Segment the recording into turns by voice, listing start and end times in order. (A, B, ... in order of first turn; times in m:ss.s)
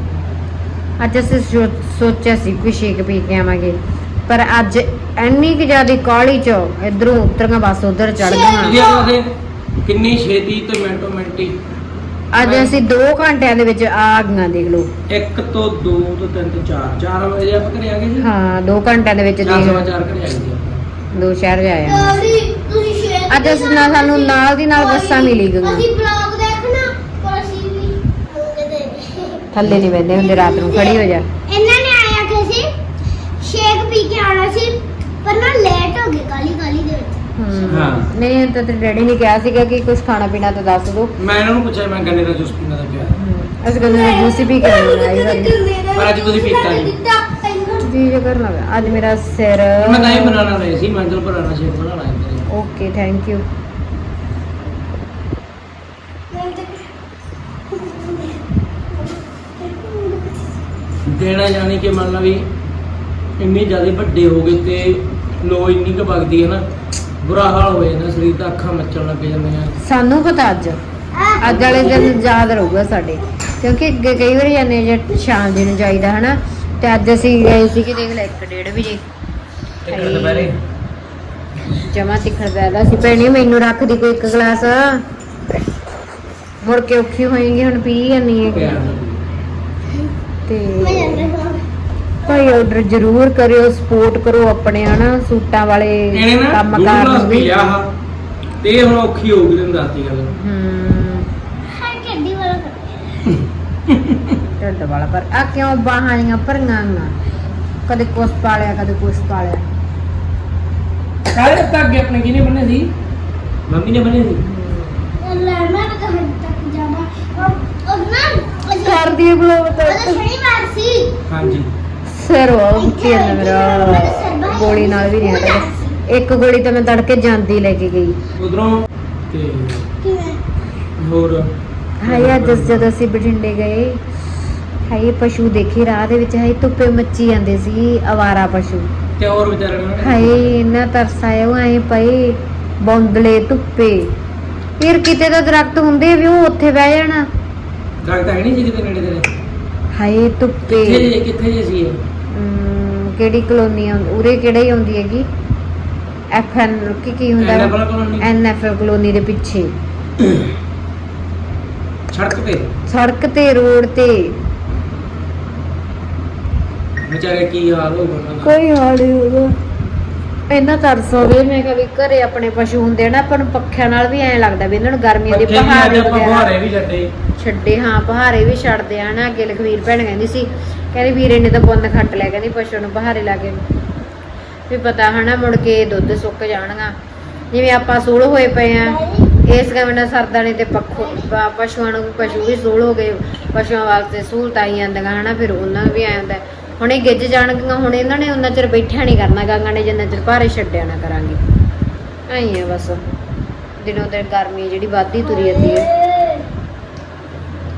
0:01.0-0:08.8 A
0:08.2-0:09.2 B
0:08.6-0:09.3 C
0:09.8-0:11.6 C
0:12.3-0:14.9 A
0:12.4-0:12.8 C
0:15.1-0:18.3 C
0:18.2-0:19.9 A
0:19.4-0:20.8 C
0:21.1-0:22.3 A
0:21.8-0:29.5 B
0:23.3-0:25.8 A
0:29.5-0:31.3 A
0:30.1-0:32.7 B
0:33.4-0:37.7 B
0:37.4-0:41.1 A
0:37.7-0:38.1 C
0:41.2-0:43.1 C
0:43.1-0:45.6 A
0:43.7-0:47.9 B
0:45.9-0:47.0 C
0:47.8-0:50.4 A
0:49.8-0:52.5 C
0:52.5-0:53.4 A
0:56.3-0:56.9 B
0:57.7-1:00.5 B
1:01.0-1:02.5 C
1:03.4-1:06.7 C
1:07.2-1:09.7 C
1:09.8-1:10.8 A
1:11.1-1:12.2 B
1:11.4-1:19.0 A
1:11.5-1:12.1 C
1:19.8-1:20.6 C
1:19.9-1:20.5 A
1:21.7-1:25.0 A
1:26.6-1:28.8 A
1:28.5-1:29.2 C
1:30.5-1:31.3 A
1:30.8-1:31.6 B
1:32.2-1:37.8 A
1:36.1-1:37.9 C
1:38.6-1:40.3 C
1:40.3-1:41.3 A
1:41.6-1:43.3 B
1:43.3-1:44.4 C
1:44.6-1:47.1 A
1:47.8-1:49.6 A
1:51.3-1:52.9 C
1:53.7-1:54.4 C
1:54.4-1:55.2 A
1:55.2-2:01.6 B
1:58.8-2:00.2 A
2:01.3-2:01.7 C
2:02.1-2:08.2 A
2:02.8-2:06.0 B
2:08.4-2:09.9 C
2:10.0-2:10.4 B
2:11.0-2:11.5 C
2:12.0-2:14.2 A
2:12.0-2:12.9 C
2:14.8-2:18.9 A
2:19.2-2:20.5 C
2:20.0-2:24.1 A
2:24.8-2:27.3 A
2:28.0-2:29.3 C
2:29.9-2:31.1 A
2:30.7-2:32.0 C
2:32.3-2:35.3 A
2:36.3-2:39.8 A
2:37.4-2:38.3 C
2:40.2-2:40.4 C
2:42.1-2:42.7 C
2:42.9-2:44.3 A
2:47.0-2:48.5 C
2:48.4-2:49.6 A
2:50.5-2:56.5 A
2:55.3-2:57.1 C
2:57.4-3:03.6 A
3:04.7-3:07.0 A
3:07.5-3:21.4 A
3:08.8-3:09.4 B
3:11.0-3:11.3 B
3:12.2-3:12.7 B
3:22.3-3:23.0 A
3:23.8-3:25.9 A
3:25.2-3:26.5 B